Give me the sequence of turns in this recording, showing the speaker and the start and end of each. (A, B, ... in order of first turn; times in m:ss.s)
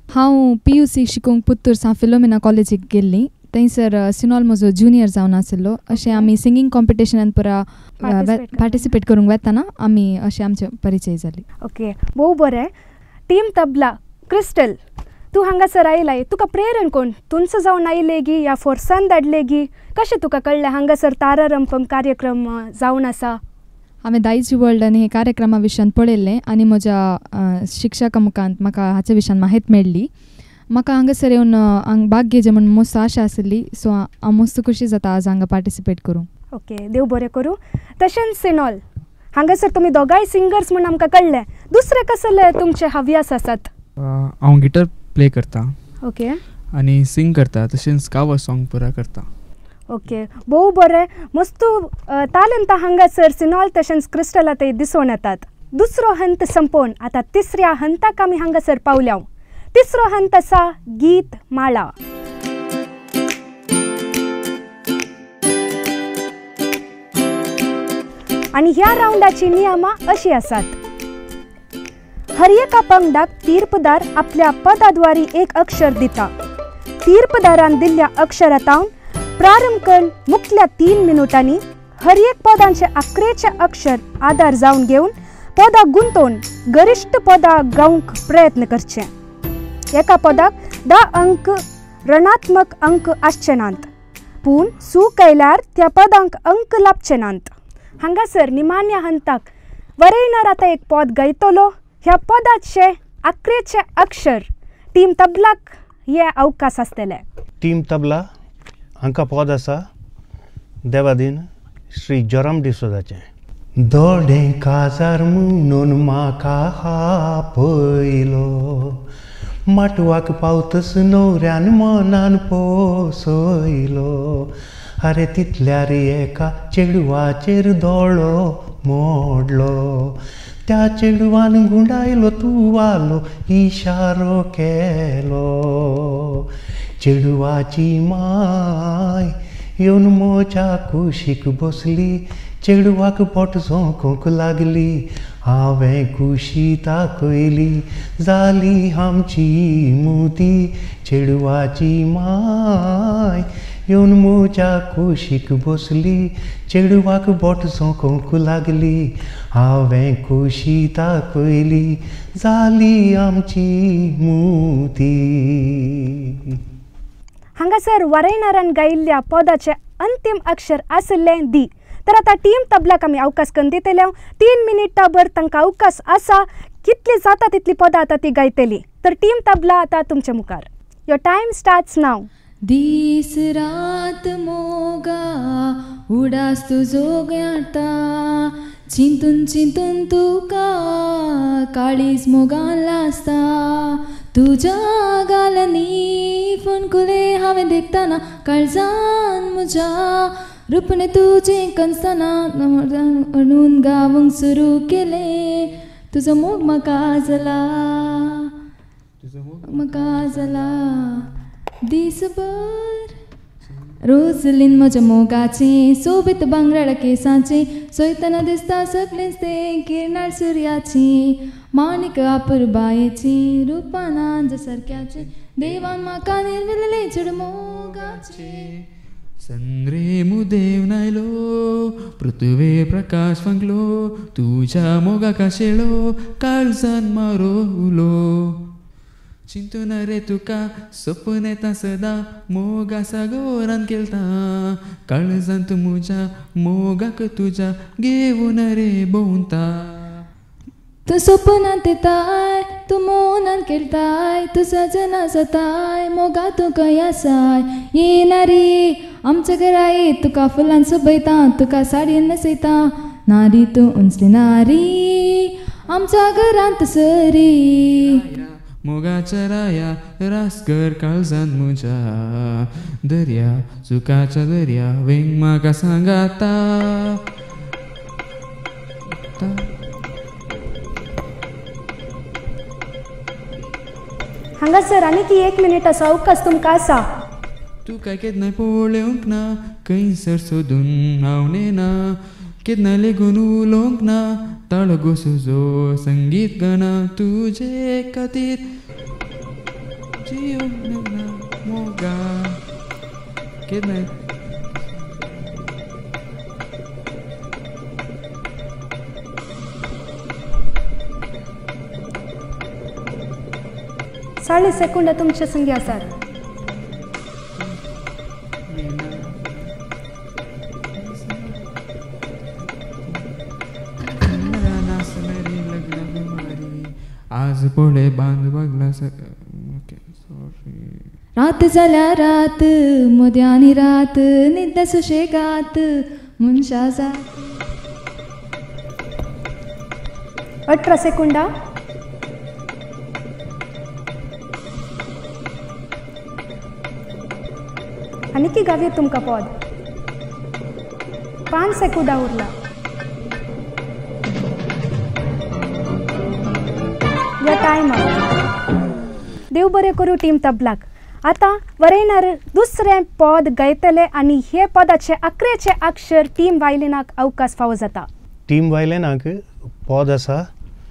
0:00.1-0:11.4 A
0:06.0-0:06.3 B
0:08.0-0:08.8 B
0:11.6-0:12.7 B
0:13.3-0:14.8 B
0:15.3-0:23.4 B
0:24.0-0:30.1 A
0:30.7-0:36.3 A
0:36.5-0:38.8 B
0:39.3-0:43.7 B
0:44.0-0:45.7 C
0:46.0-0:46.4 B
0:46.7-0:49.3 C
0:49.9-1:01.9 B
1:08.5-1:10.8 B
1:12.3-1:16.3 B
1:17.0-1:29.1 B
1:29.9-1:33.9 B
1:34.4-1:39.5 B
1:40.0-1:47.2 B
1:47.6-1:48.2 D
1:49.0-1:49.8 D
1:50.8-1:53.2 D
1:53.8-1:59.0 D
1:59.7-2:16.5 D
2:17.0-2:46.6 D
2:47.6-3:02.3 B
3:02.7-3:28.5 A
3:29.2-3:31.0 C
3:29.7-3:31.2 A
3:31.9-3:33.1 A
3:33.7-3:33.9 C
3:34.0-3:48.6 A
3:45.2-3:45.9 C
3:47.9-3:48.8 C
3:49.4-3:58.6 C
3:59.5-4:10.2 C
4:11.1-4:28.2 A
4:28.0-4:37.2 C
4:39.4-4:39.7 C
4:44.6-4:47.0 B
4:47.8-4:51.9 C
4:52.6-4:58.6 C
5:00.2-5:02.6 C
5:03.7-5:04.2 C
5:14.4-5:16.1 B
5:17.6-5:17.9 C
5:18.7-5:19.7 C
5:21.0-5:21.6 C
5:23.0-5:23.3 C
5:24.0-5:31.0 C
5:31.4-5:37.5 A
5:40.7-5:41.5 B
5:48.3-5:49.5 B
5:51.5-5:52.5 B
5:57.4-5:58.1 B
5:59.5-6:08.1 B
6:08.5-6:10.5 D